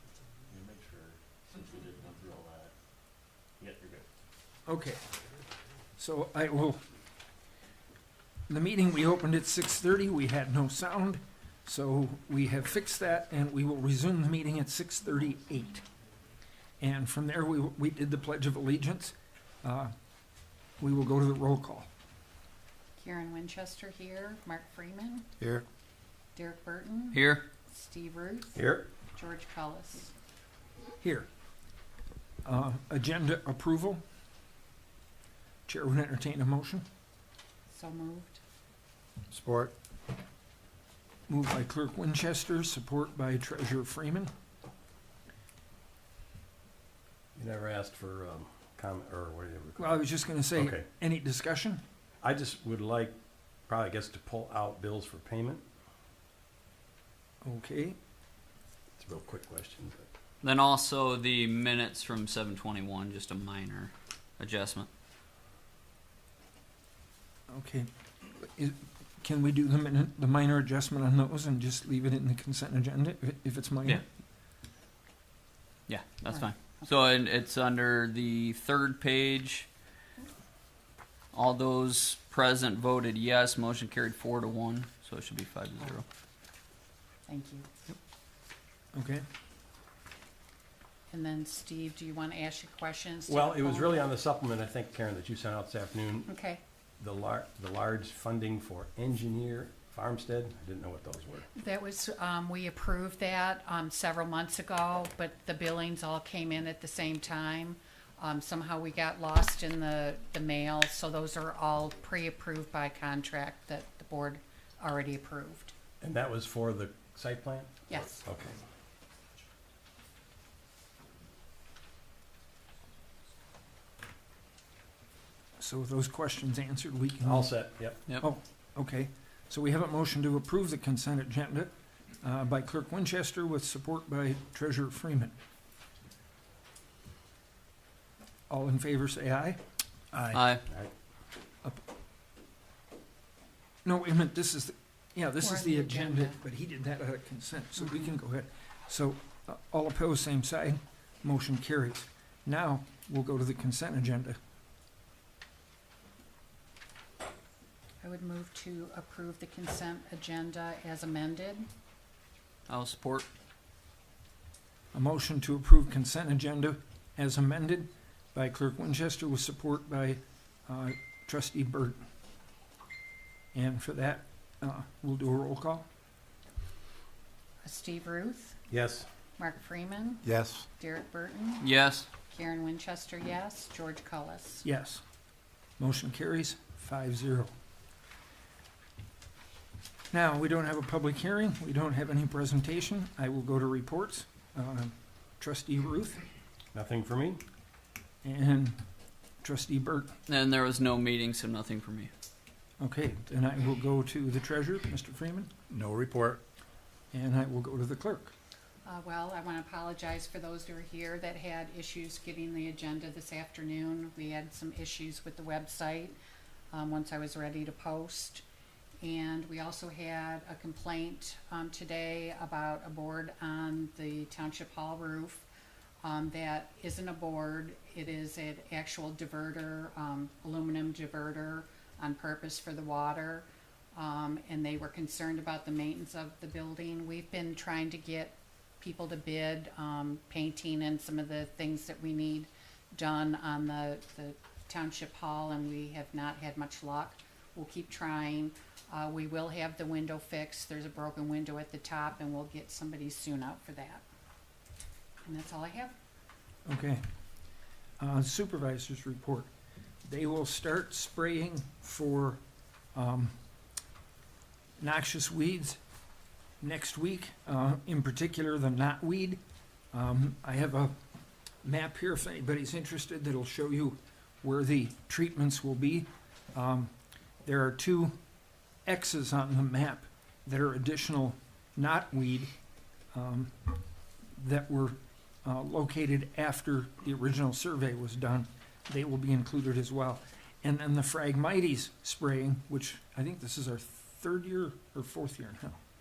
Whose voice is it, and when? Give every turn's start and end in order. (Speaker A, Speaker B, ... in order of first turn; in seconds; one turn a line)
Speaker A: 0.5-2.7
Speaker A: 3.6-4.0
Speaker B: 4.7-5.0
Speaker B: 6.0-6.8
Speaker B: 8.5-15.8
Speaker B: 16.8-19.9
Speaker B: 20.8-21.9
Speaker C: 23.0-25.3
Speaker D: 25.4-25.6
Speaker C: 26.4-30.1
Speaker E: 27.1-27.4
Speaker A: 28.6-28.9
Speaker B: 31.0-31.3
Speaker B: 32.5-34.0
Speaker B: 35.7-36.9
Speaker C: 37.7-38.4
Speaker D: 39.3-39.7
Speaker B: 41.3-44.3
Speaker A: 47.4-50.0
Speaker B: 49.8-51.8
Speaker A: 50.5-50.9
Speaker A: 52.2-53.2
Speaker A: 53.7-55.6
Speaker B: 57.4-58.0
Speaker A: 59.0-60.1
Speaker E: 60.4-64.9
Speaker B: 67.5-74.0
Speaker E: 75.9-79.7
Speaker E: 81.3-86.0
Speaker C: 87.3-87.7
Speaker B: 89.0-89.2
Speaker C: 91.1-94.1
Speaker A: 93.3-96.3
Speaker C: 96.3-96.6
Speaker A: 97.0-101.5
Speaker C: 101.5-115.7
Speaker A: 116.0-118.6
Speaker C: 117.9-118.2
Speaker B: 125.6-127.6
Speaker A: 127.2-128.0
Speaker B: 128.2-131.7
Speaker B: 132.2-135.3
Speaker B: 138.5-139.6
Speaker B: 140.1-140.4
Speaker E: 140.3-140.6
Speaker B: 143.8-154.4
Speaker C: 145.4-146.4
Speaker C: 158.0-161.7
Speaker E: 162.7-163.3
Speaker B: 164.9-172.0
Speaker B: 173.5-175.9
Speaker C: 177.6-178.6
Speaker A: 178.7-179.1
Speaker C: 179.4-180.2
Speaker D: 180.2-180.7
Speaker C: 180.8-184.7
Speaker E: 181.6-182.1
Speaker B: 184.6-185.0
Speaker B: 185.8-187.5
Speaker B: 190.1-196.2
Speaker A: 196.7-197.4
Speaker B: 198.2-198.8
Speaker B: 199.4-200.2
Speaker E: 200.3-202.1
Speaker B: 202.8-205.5
Speaker D: 205.7-206.4
Speaker B: 207.1-208.3
Speaker C: 208.8-216.2
Speaker C: 216.7-218.4
Speaker C: 219.0-225.5
Speaker C: 226.0-254.0
Speaker C: 255.2-255.9
Speaker B: 256.7-257.0
Speaker B: 258.0-259.5
Speaker B: 260.0-262.4
Speaker B: 262.9-263.3
Speaker B: 264.8-265.8
Speaker B: 266.6-269.4
Speaker B: 269.9-270.9
Speaker B: 271.6-276.9
Speaker B: 277.4-278.1
Speaker B: 278.9-282.5
Speaker B: 283.1-283.5
Speaker B: 284.4-295.8